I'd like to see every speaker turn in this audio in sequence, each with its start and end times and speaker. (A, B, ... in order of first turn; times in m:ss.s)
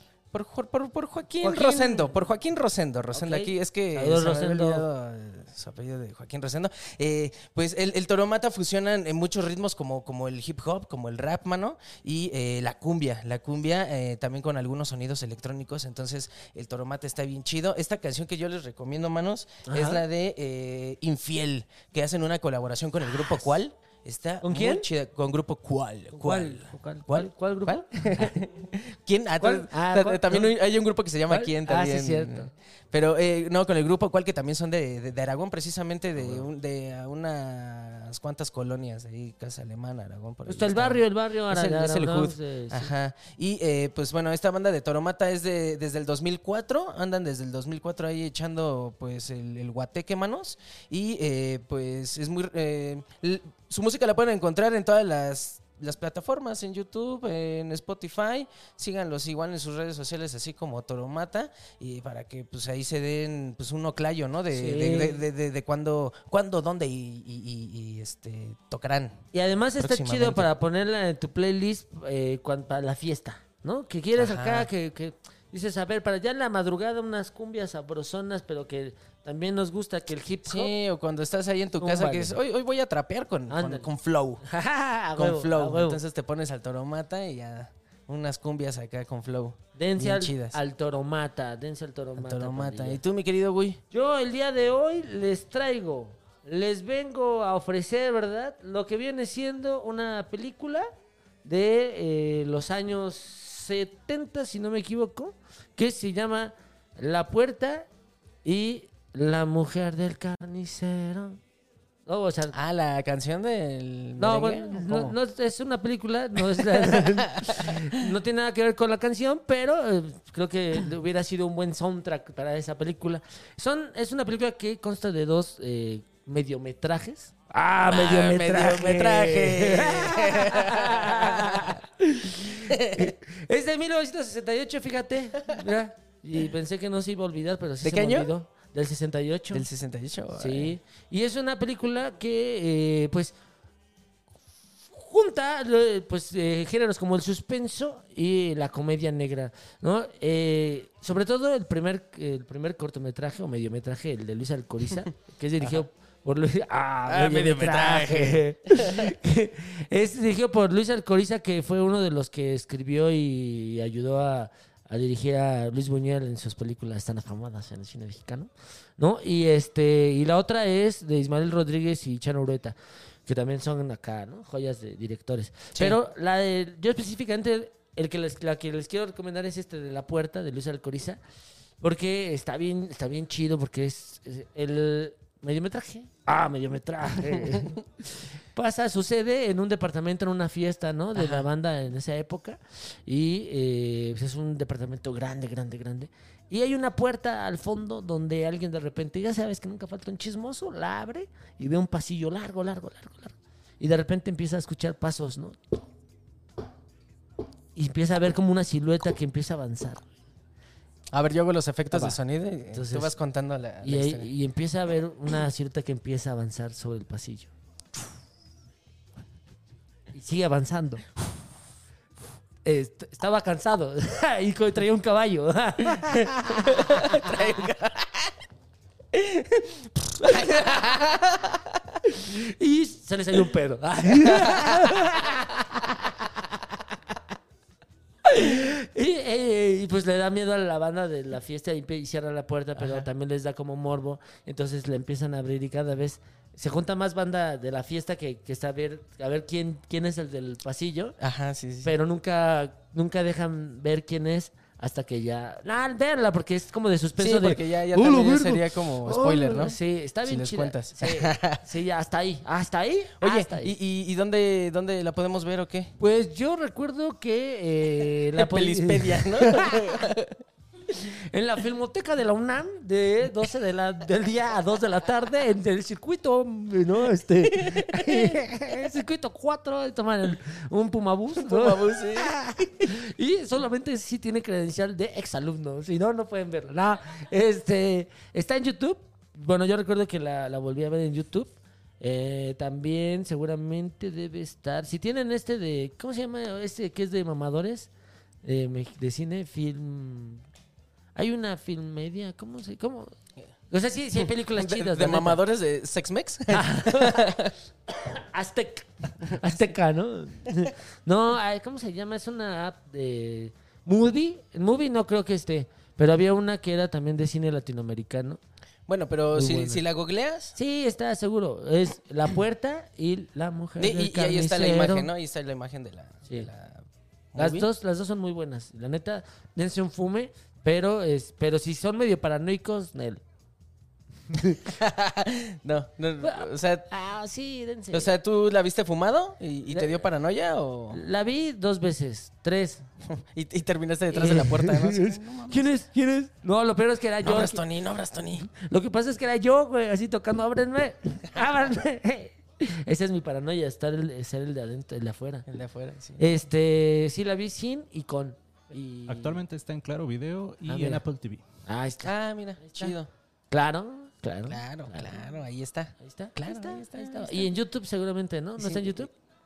0:00.3-1:09.2 A
0:01.4-0:02.2 B
0:03.1-0:04.8 B
0:19.6-0:20.0 B
0:23.1-0:23.4 B
0:24.4-0:24.9 B
0:26.1-0:28.4 B
0:29.4-0:30.5 B
0:31.3-0:32.5 B
0:40.5-0:42.9 B
1:04.5-1:05.2 B
1:09.3-1:20.7 B
1:09.8-1:10.5 A
1:14.1-1:14.7 A
1:20.4-1:24.4 A
1:21.8-1:22.4 B
1:23.5-1:23.9 B
1:24.4-1:26.0 B
1:25.2-1:30.6 A
1:29.8-1:33.0 B
1:32.2-1:33.8 A
1:33.9-1:40.9 B
1:41.4-1:47.9 B
1:48.4-1:51.4 B
1:52.0-1:52.5 B
1:52.5-1:55.2 A
1:54.2-2:19.7 B
1:56.4-1:57.8 A
2:07.9-2:11.8 A
2:12.6-2:13.1 A
2:17.8-2:18.3 A
2:19.5-2:20.8 A
2:20.3-2:23.4 B
2:24.9-3:01.2 B
2:37.1-2:39.1 A
3:01.8-3:25.8 B
3:07.4-3:07.8 A
3:11.1-3:11.5 A
3:27.8-3:30.1 B
3:31.1-3:34.3 A
3:31.9-3:32.2 B
3:32.7-3:33.1 B
3:33.8-3:37.5 B
3:40.1-3:41.0 B
3:42.6-3:47.6 B
3:46.0-3:48.3 A
3:49.1-3:51.8 A
3:50.2-3:50.8 B
3:52.0-3:56.6 B
3:54.2-3:55.2 A
3:58.2-4:11.2 B
4:02.8-4:03.1 A
4:11.2-4:11.9 A
4:11.8-4:23.8 B
4:17.2-4:21.6 A
4:23.2-4:25.9 A
4:26.0-4:30.0 B
4:28.3-4:30.4 A
4:30.9-4:51.5 B
4:37.5-4:38.4 A
4:41.4-4:42.3 A
4:52.0-4:57.9 B
4:58.4-5:00.4 B
5:01.1-5:03.1 B
5:03.7-5:05.4 B
5:04.1-5:07.5 A
5:06.5-5:18.4 B
5:18.9-5:20.6 A
5:19.3-5:19.8 B
5:20.6-5:25.1 B
5:23.8-5:27.7 A
5:27.4-5:33.2 B
5:34.3-5:34.7 B
5:34.6-5:36.9 A
5:36.2-5:38.1 B
5:37.9-5:41.0 A
5:39.7-5:40.0 B
5:40.9-5:42.8 B
5:43.1-5:45.7 A
5:44.1-5:47.6 B
5:47.2-5:48.5 A
5:48.5-5:55.4 B
5:55.5-5:56.4 A
5:56.2-5:59.4 B
5:59.1-6:01.4 C
6:00.6-6:01.0 B
6:01.6-6:03.0 B
6:02.0-6:03.1 A
6:03.5-6:05.2 B
6:04.5-6:07.5 A
6:06.0-6:09.1 B
6:08.6-6:09.1 A